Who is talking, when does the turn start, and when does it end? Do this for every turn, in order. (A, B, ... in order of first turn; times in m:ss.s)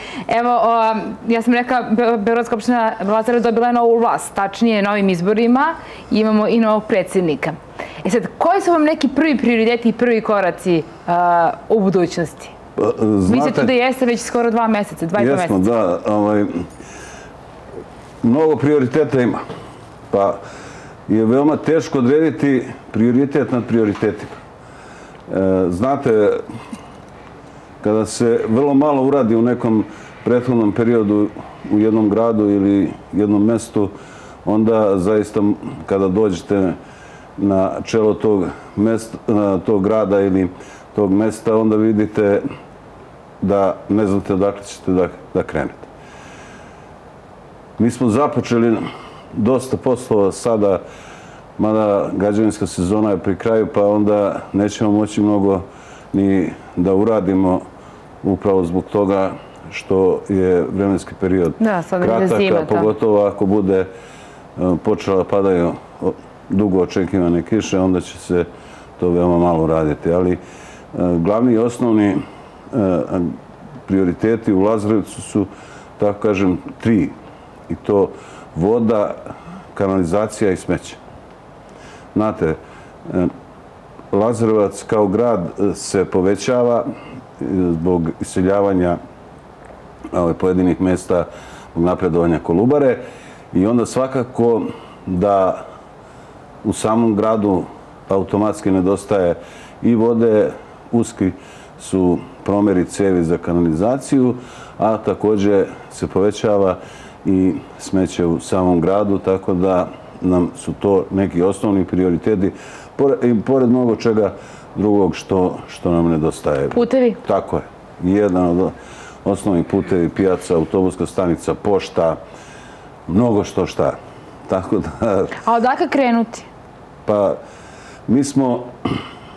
0:00.3-0:12.5 A
0:12.8-0:13.7 B
0:13.3-0:15.6 A
0:15.2-0:16.6 B
0:18.2-0:19.4 B
0:20.1-0:20.4 B
0:21.1-0:24.4 B
0:25.3-0:26.4 B
0:27.8-0:33.9 B
0:34.4-0:36.8 B
0:37.4-0:42.4 B
0:43.4-0:45.9 B
0:47.8-0:50.8 B
0:51.6-0:57.6 B
0:58.2-1:03.9 B
1:01.6-1:02.9 A
1:04.6-1:08.5 B
1:09.0-1:10.4 B
1:10.9-1:12.2 B
1:12.7-1:17.1 B
1:17.7-1:19.2 B
1:19.7-1:21.0 B
1:22.1-1:23.3 B
1:24.1-1:26.8 B
1:27.4-1:29.0 B
1:30.1-1:33.0 B
1:33.5-1:35.6 B
1:36.6-2:02.2 B
1:56.7-1:57.2 A
2:03.1-2:05.4 B
2:05.4-2:06.5 A
2:07.0-2:07.4 B
2:08.1-2:08.7 B